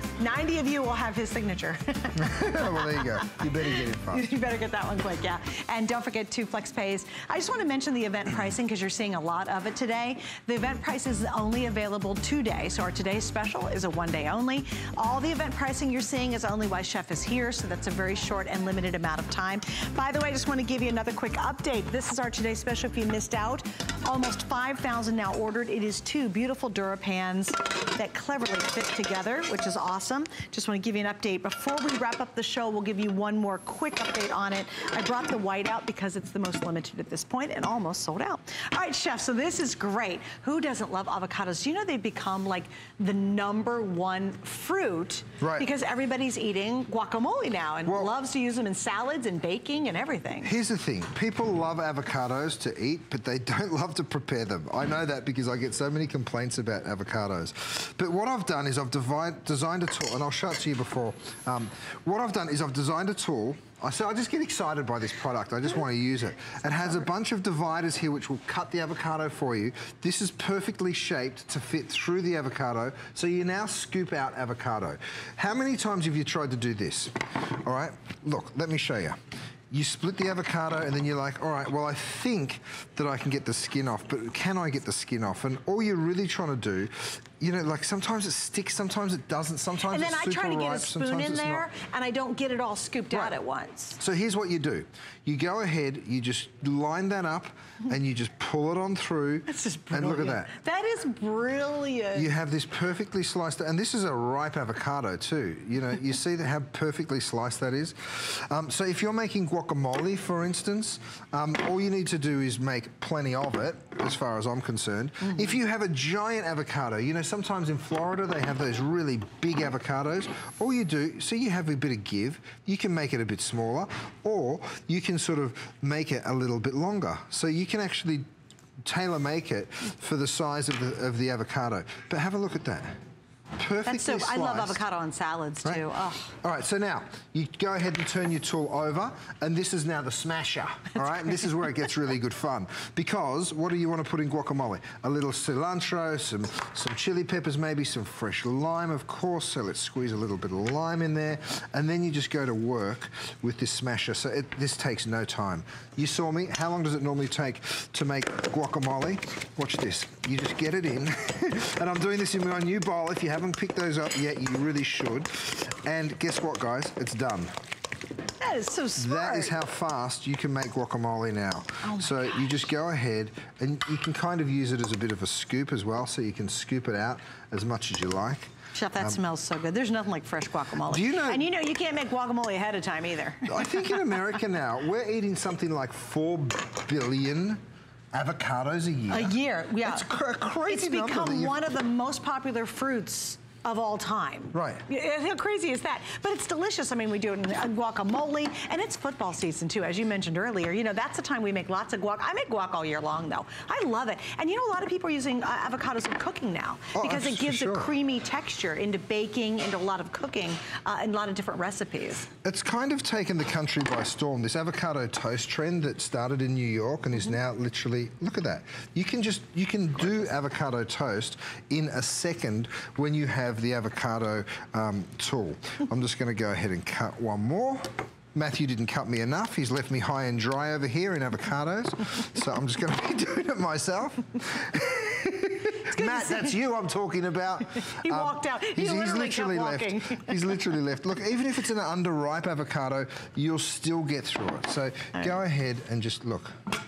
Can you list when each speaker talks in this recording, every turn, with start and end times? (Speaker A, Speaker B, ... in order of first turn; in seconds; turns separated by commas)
Speaker A: 0.2-50.5, Speaker B: 2.2-4.3, Speaker B: 45.4-45.7, Speaker B: 47.9-48.1, Speaker B: 50.4-79.2, Speaker B: 79.7-91.7, Speaker A: 89.9-94.0, Speaker B: 94.0-100.5, Speaker A: 99.5-102.3, Speaker B: 102.1-128.3, Speaker B: 128.8-133.0, Speaker B: 133.6-134.8, Speaker A: 133.8-136.3, Speaker B: 135.6-167.5, Speaker A: 168.4-169.5, Speaker B: 169.0-179.2, Speaker A: 171.8-172.4, Speaker A: 178.7-183.8, Speaker B: 180.9-181.5, Speaker B: 183.5-187.6, Speaker B: 188.1-191.6, Speaker A: 189.1-190.1, Speaker A: 190.7-212.3, Speaker B: 194.5-194.8, Speaker B: 206.9-207.9, Speaker B: 212.4-246.6, Speaker A: 235.9-236.5, Speaker A: 238.0-240.3